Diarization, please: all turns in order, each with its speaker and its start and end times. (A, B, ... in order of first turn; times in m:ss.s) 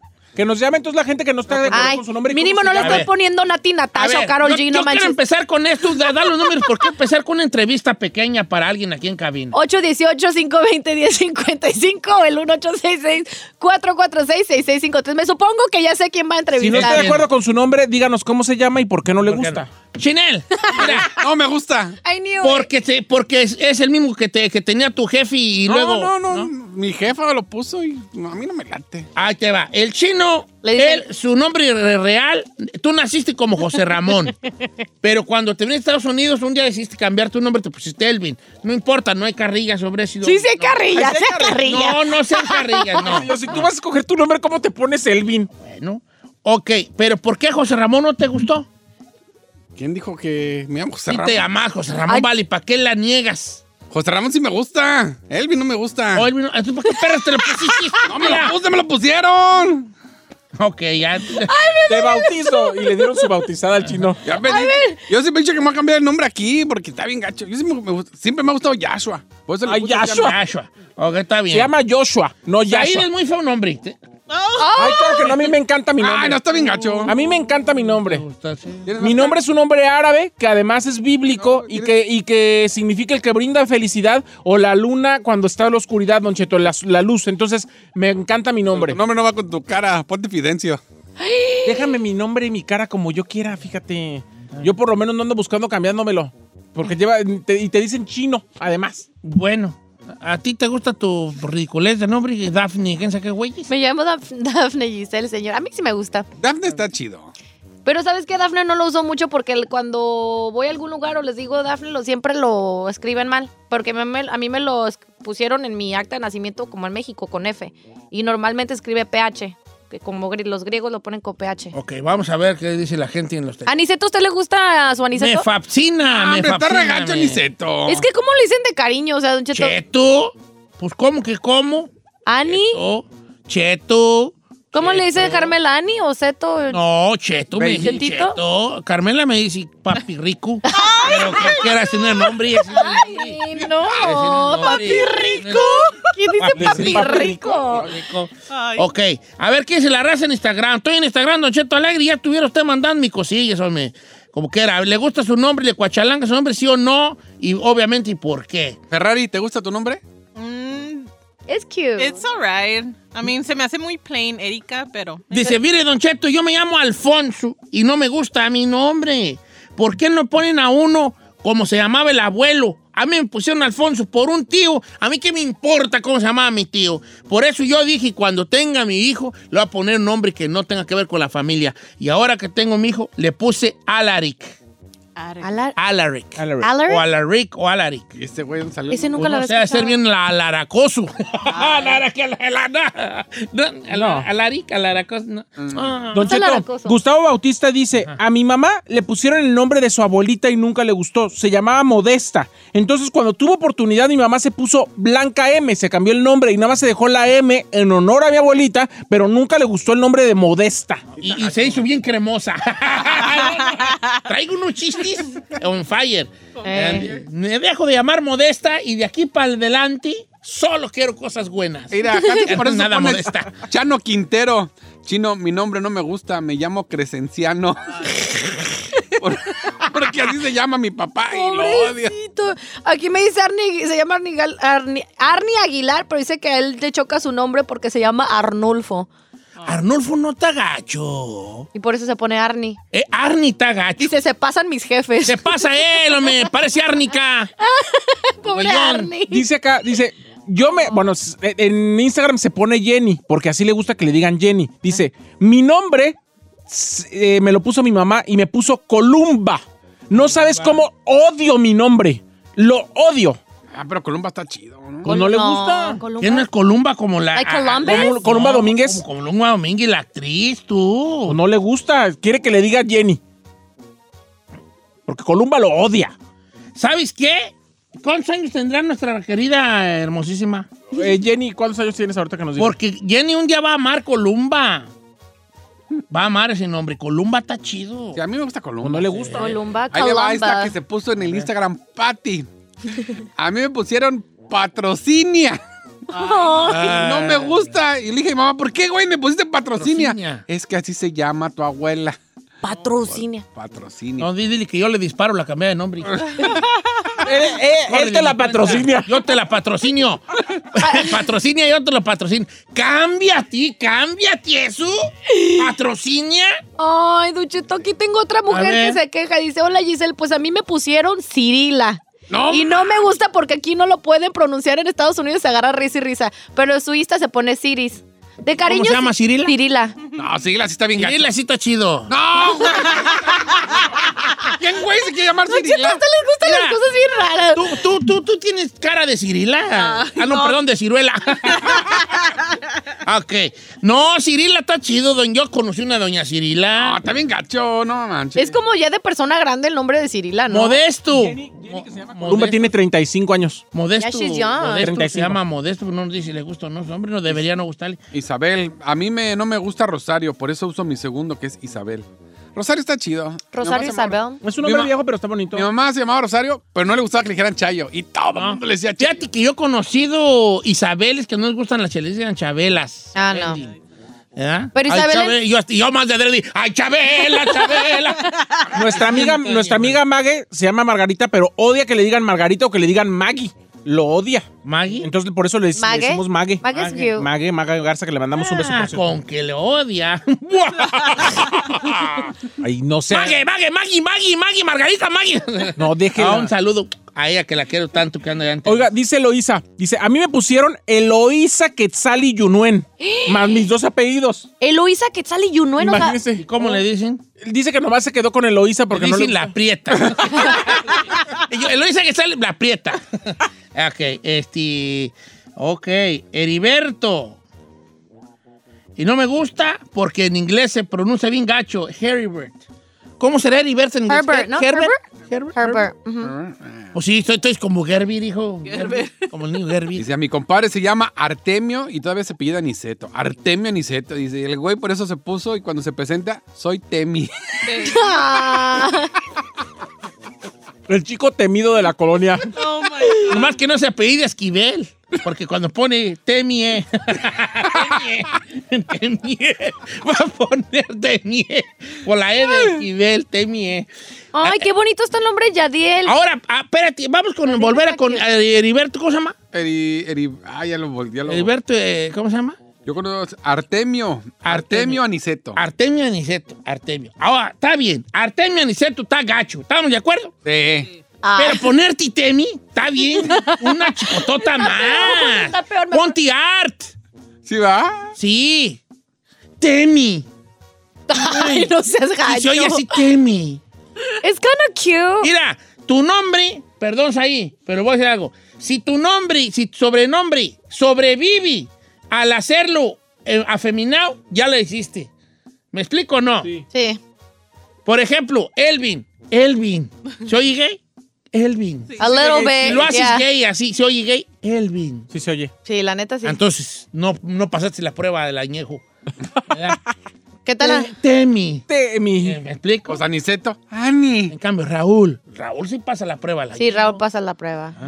0:00.4-0:03.1 A
0:01.7-0:05.2 B
0:02.8-0:03.1 C
0:04.0-0:09.6 C
0:09.5-0:17.2 B
0:16.6-0:17.3 C
0:16.7-0:19.7 A
0:19.2-0:21.1 C
0:20.6-0:21.0 B
0:20.8-0:22.0 D
0:22.0-0:22.7 B
0:22.4-0:26.5 C
0:25.7-0:29.1 D
0:29.2-0:34.4 C
0:30.6-0:31.0 B
0:35.0-0:40.8 C
0:40.2-0:43.2 B
0:40.9-0:41.6 A
0:41.6-0:43.4 C
0:43.0-0:45.5 A
0:45.6-0:48.7 C
0:49.8-0:51.4 D
0:51.1-0:53.6 C
0:53.9-0:56.3 D
0:56.1-0:58.6 C
0:57.1-0:58.1 B
0:58.0-0:59.9 D
1:00.6-1:01.5 C
1:01.4-1:03.4 B
1:01.9-1:04.2 A
1:04.2-1:10.3 D
1:04.4-1:05.1 B
1:09.7-1:10.4 A
1:10.1-1:11.7 C
1:11.5-1:13.1 A
1:12.6-1:14.0 C
1:14.3-1:15.0 E
1:14.6-1:15.4 B
1:14.8-1:16.4 A
1:16.0-1:17.1 D
1:16.6-1:18.9 C
1:17.0-1:18.2 A
1:18.8-1:19.4 D
1:19.0-1:29.0 A
1:21.4-1:22.0 D
1:28.7-1:30.8 D
1:31.2-1:32.0 B
1:31.6-1:39.1 A
1:39.2-1:43.7 C
1:43.7-1:46.3 B
1:46.4-1:47.3 D
1:47.8-2:01.7 B
2:01.7-2:03.7 C
2:03.7-2:05.5 B
2:05.2-2:07.4 C
2:06.1-2:08.1 D
2:07.9-2:09.8 B
2:09.5-2:11.9 C
2:12.3-2:12.8 B
2:12.4-2:15.6 C
2:14.7-2:16.8 B
2:16.7-2:23.4 C
2:17.6-2:18.4 B
2:20.6-2:27.9 B
2:20.8-2:21.6 E
2:23.6-2:23.9 E
2:24.0-2:38.8 C
2:24.6-2:25.6 E
2:26.5-2:27.9 A
2:28.5-2:28.9 E
2:38.9-2:40.0 D
2:40.4-2:41.1 E
2:41.5-2:42.2 B
2:42.0-2:45.6 E
2:45.3-3:04.6 C
3:05.2-3:05.6 E
3:05.4-3:05.8 B
3:05.8-3:08.1 C
3:06.4-3:06.7 A
3:06.6-3:07.0 B
3:08.2-3:09.2 D
3:08.9-3:10.0 B
3:09.2-3:16.7 C
3:11.5-3:12.0 E
3:13.9-3:14.3 A
3:15.6-3:16.0 D
3:16.1-3:31.0 A
3:16.2-3:17.0 B
3:31.2-3:43.6 C
3:31.2-3:31.8 D
3:33.6-3:34.2 E
3:36.6-3:37.2 E
3:36.6-3:37.1 B
3:41.9-3:48.7 D
3:42.1-3:42.5 B
3:49.2-3:52.2 D
3:51.3-3:59.1 B
3:59.6-4:01.7 C
4:01.8-4:02.8 B
4:02.9-4:04.1 C
4:04.0-4:06.4 B
4:05.2-4:07.5 C
4:07.6-4:09.4 B
4:08.5-4:09.1 C
4:09.3-4:16.2 A
4:16.7-4:23.4 A
4:20.1-4:20.8 C
4:23.7-4:25.1 D
4:25.0-4:26.0 A
4:25.0-4:26.5 B
4:26.2-4:31.4 C
4:27.4-4:28.2 B
4:27.8-4:29.0 A
4:31.3-4:33.2 A
4:35.1-4:36.1 A
4:36.8-4:40.7 C
4:40.9-4:42.8 A
4:42.6-4:44.9 C
4:46.1-4:48.2 C
4:48.2-4:49.3 D
4:48.8-4:49.6 A
4:49.3-4:50.8 B
4:49.9-4:52.5 D
4:51.2-4:51.5 C
4:53.4-4:55.6 D
4:56.1-4:57.0 E
4:56.2-4:56.9 B
4:56.6-4:57.7 C
4:56.9-5:02.2 D
4:59.8-5:00.4 C
5:02.6-5:03.5 B
5:03.1-5:04.3 D
5:04.2-5:06.4 C
5:07.2-5:09.2 A
5:07.9-5:16.6 C
5:10.8-5:11.2 B
5:15.3-5:15.7 B
5:16.8-5:30.0 B
5:18.5-5:19.0 C
5:22.3-5:23.1 D
5:28.6-5:29.5 C
5:30.2-5:31.3 D
5:31.0-5:32.1 C
5:32.1-5:33.9 D
5:34.4-5:36.0 D
5:35.4-5:37.8 B
5:36.4-5:36.8 C
5:37.5-5:42.0 C
5:39.8-5:40.6 B
5:43.0-5:47.0 C
5:46.8-5:48.6 D
5:48.4-5:50.8 B
5:50.5-5:52.7 C
5:51.1-5:53.6 A
5:53.7-5:58.0 C
5:54.0-5:54.9 B
5:54.8-5:55.4 A
5:58.1-6:04.9 D
6:03.5-6:04.4 B
6:04.4-6:05.7 A
6:05.5-6:09.2 D
6:08.3-6:13.7 C
6:13.1-6:13.6 B
6:14.4-6:20.0 C
6:14.8-6:15.4 B
6:18.7-6:24.5 A
6:24.6-6:25.1 C
6:25.0-6:29.2 A
6:25.8-6:27.3 B
6:26.7-6:27.1 C
6:28.3-6:32.4 C
6:32.6-6:33.4 A
6:33.1-6:38.9 C
6:35.8-6:36.5 A
6:38.7-6:44.5 A
6:43.0-6:43.7 B
6:44.6-6:46.2 B
6:45.8-6:46.7 A
6:46.4-6:47.2 C
6:47.4-6:49.5 A
6:48.9-6:57.4 C
6:59.0-7:02.6 C
7:03.2-7:05.9 C
7:04.1-7:05.0 B
7:05.6-7:06.3 B
7:06.2-7:06.9 D
7:06.9-7:10.0 C
7:08.6-7:09.3 E
7:10.0-7:17.3 D
7:17.6-7:18.4 E
7:17.8-7:19.1 B
7:20.9-7:22.5 A
7:22.5-7:23.6 E
7:23.2-7:33.9 C
7:34.3-7:36.1 B
7:34.4-7:34.7 C
7:36.0-7:39.4 C
7:37.5-7:38.2 B
7:39.5-7:41.5 D
7:41.3-7:42.6 C
7:42.8-7:45.6 D
7:44.4-7:45.0 C
7:45.6-7:50.3 C
7:50.4-7:50.9 D
7:51.2-7:51.7 B
7:51.4-7:56.9 C
7:53.2-7:56.2 B
7:57.4-7:58.1 D
7:58.2-7:58.8 C
7:59.6-8:00.3 C
8:01.1-8:03.0 B
8:01.1-8:03.6 C
8:04.2-8:05.3 B
8:05.2-8:15.1 C
8:15.7-8:16.5 C
8:16.7-8:17.0 B
8:17.9-8:20.8 C
8:21.3-8:22.0 C
8:21.9-8:22.6 E
8:22.0-8:23.2 B
8:22.1-8:22.8 A
8:22.6-8:25.1 C
8:25.1-8:25.5 A
8:25.6-8:26.4 B
8:26.2-8:28.8 C
8:29.5-8:29.8 C
8:30.5-8:30.9 B
8:30.6-8:31.6 C
8:31.7-8:32.4 A
8:32.2-8:33.0 C
8:32.9-8:34.4 D
8:34.3-8:37.0 C
8:36.6-8:37.8 B